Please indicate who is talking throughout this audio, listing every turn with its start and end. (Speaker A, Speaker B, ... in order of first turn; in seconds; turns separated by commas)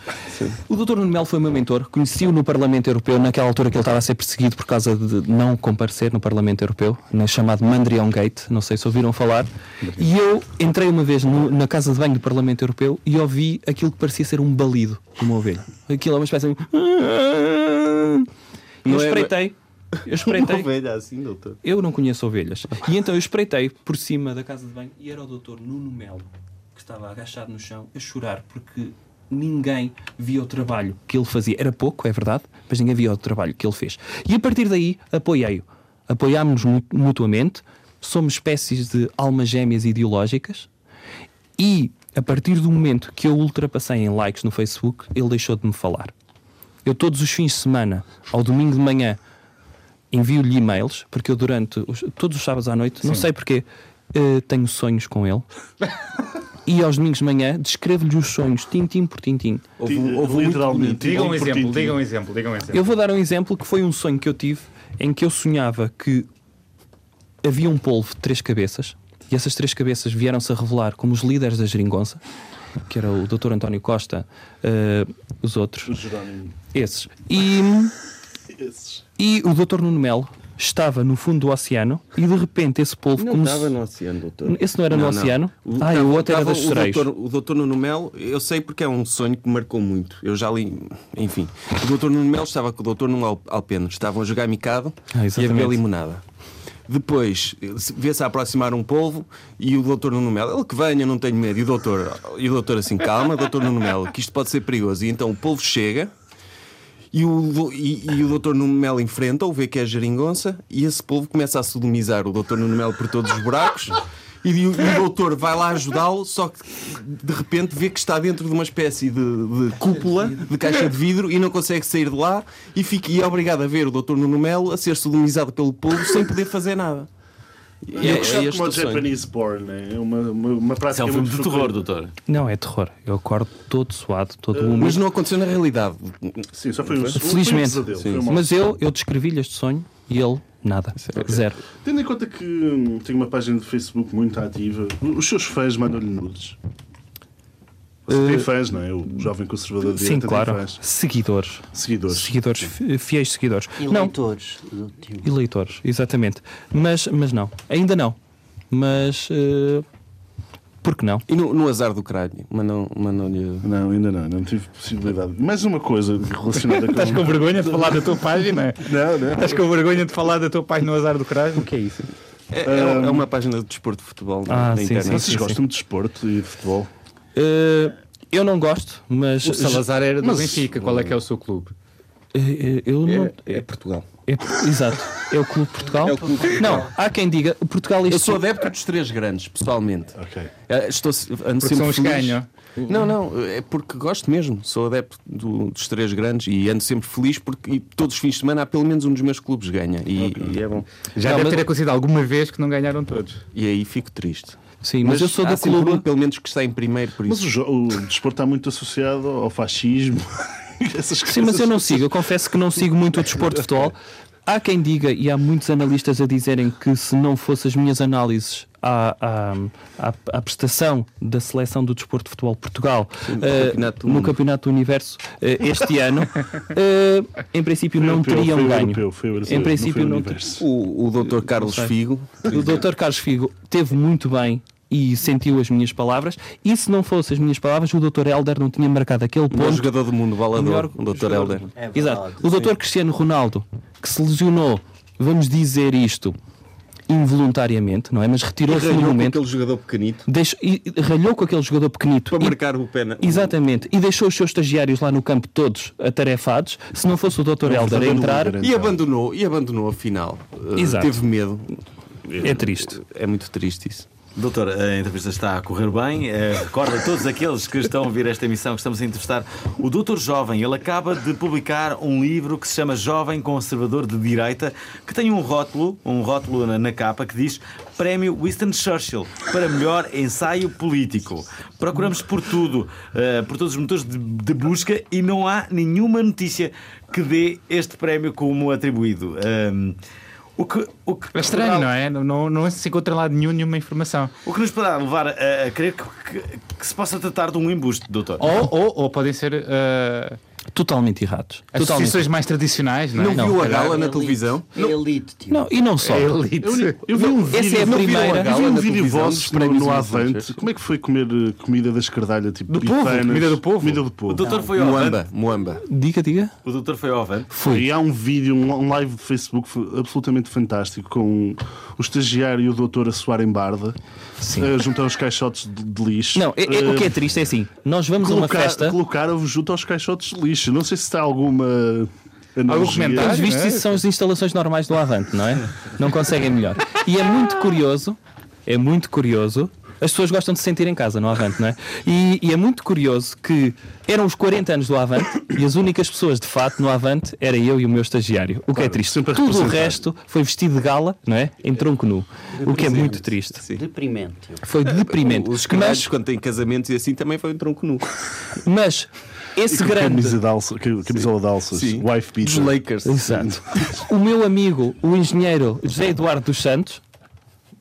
Speaker A: 0.6-18.3, Speaker B: 18.8-19.5, Speaker A: 18.8-20.7, Speaker B: 20.2-21.6, Speaker A: 21.6-40.7, Speaker A: 41.6-46.1, Speaker A: 46.8-49.2, Speaker A: 50.1-55.5, Speaker A: 56.6-59.7, Speaker B: 59.8-61.2, Speaker C: 59.8-62.0, Speaker D: 61.0-62.8, Speaker A: 62.7-66.3, Speaker A: 67.4-72.2, Speaker A: 72.8-76.0, Speaker C: 75.8-76.5, Speaker A: 76.7-77.9, Speaker C: 78.5-79.0, Speaker A: 79.2-83.7, Speaker B: 83.2-96.2, Speaker A: 84.4-87.1, Speaker A: 95.1-95.8, Speaker B: 96.9-106.1, Speaker B: 107.1-127.1, Speaker B: 127.8-129.1, Speaker C: 127.9-131.8, Speaker A: 128.0-128.3, Speaker E: 130.9-132.1, Speaker A: 132.3-135.0, Speaker C: 134.6-134.9, Speaker B: 134.8-137.2, Speaker C: 136.5-138.5, Speaker A: 137.1-141.6, Speaker B: 137.9-138.3, Speaker B: 141.0-141.4, Speaker C: 141.8-146.6, Speaker C: 148.1-150.8, Speaker A: 148.1-148.5, Speaker A: 149.9-154.1, Speaker C: 151.7-152.7, Speaker F: 153.8-155.2, Speaker A: 155.2-158.2, Speaker A: 158.7-159.8, Speaker A: 160.8-161.2, Speaker B: 161.3-163.7, Speaker C: 163.6-168.0, Speaker D: 166.5-172.1, Speaker C: 168.8-169.6, Speaker B: 172.5-175.5, Speaker C: 172.6-173.3, Speaker A: 174.5-175.6, Speaker C: 175.0-176.9, Speaker A: 177.3-179.8, Speaker D: 179.4-181.7, Speaker C: 180.3-180.6, Speaker A: 182.3-183.6, Speaker B: 183.0-184.1, Speaker A: 184.2-188.4, Speaker B: 185.9-186.9, Speaker B: 188.0-201.7, Speaker C: 190.2-190.5, Speaker D: 191.6-192.5, Speaker C: 200.2-200.6, Speaker D: 201.2-203.4, Speaker B: 203.5-207.4, Speaker A: 204.8-206.0, Speaker C: 207.3-212.0, Speaker A: 211.2-230.4, Speaker B: 223.2-224.4, Speaker C: 228.0-230.6, Speaker B: 230.6-232.8, Speaker A: 231.2-239.9, Speaker B: 239.5-241.7, Speaker A: 240.5-246.4, Speaker F: 241.7-242.7, Speaker A: 247.1-249.4, Speaker B: 248.6-250.2, Speaker A: 250.2-252.6, Speaker B: 252.3-253.6, Speaker A: 253.2-258.5, Speaker C: 257.6-259.0, Speaker B: 257.9-264.1, Speaker A: 260.7-261.2, Speaker A: 262.4-263.0, Speaker E: 264.4-290.0, Speaker E: 290.6-291.9, Speaker D: 291.3-294.3, Speaker E: 294.4-298.5, Speaker D: 298.4-300.4, Speaker A: 300.7-302.2, Speaker D: 301.7-303.6, Speaker B: 303.1-304.9, Speaker A: 303.3-303.6, Speaker F: 303.6-305.7, Speaker A: 305.5-306.4, Speaker D: 306.0-307.0, Speaker C: 306.6-314.4, Speaker B: 307.1-310.6, Speaker A: 307.4-308.6, Speaker B: 312.8-313.3, Speaker D: 312.8-314.1, Speaker E: 314.3-315.2, Speaker F: 314.4-314.7, Speaker B: 314.7-315.8, Speaker A: 315.8-316.5, Speaker E: 316.6-317.5, Speaker A: 317.5-317.9, Speaker C: 317.6-324.0, Speaker A: 324.4-324.7, Speaker C: 324.5-327.2, Speaker A: 326.3-329.0, Speaker C: 328.2-333.4, Speaker D: 332.6-334.0, Speaker A: 333.1-353.6, Speaker C: 348.7-350.0, Speaker F: 352.6-354.6, Speaker B: 352.7-353.1, Speaker A: 354.6-356.1, Speaker B: 354.9-358.3, Speaker A: 358.6-360.4, Speaker C: 359.7-363.8, Speaker B: 361.2-363.4, Speaker A: 363.0-367.0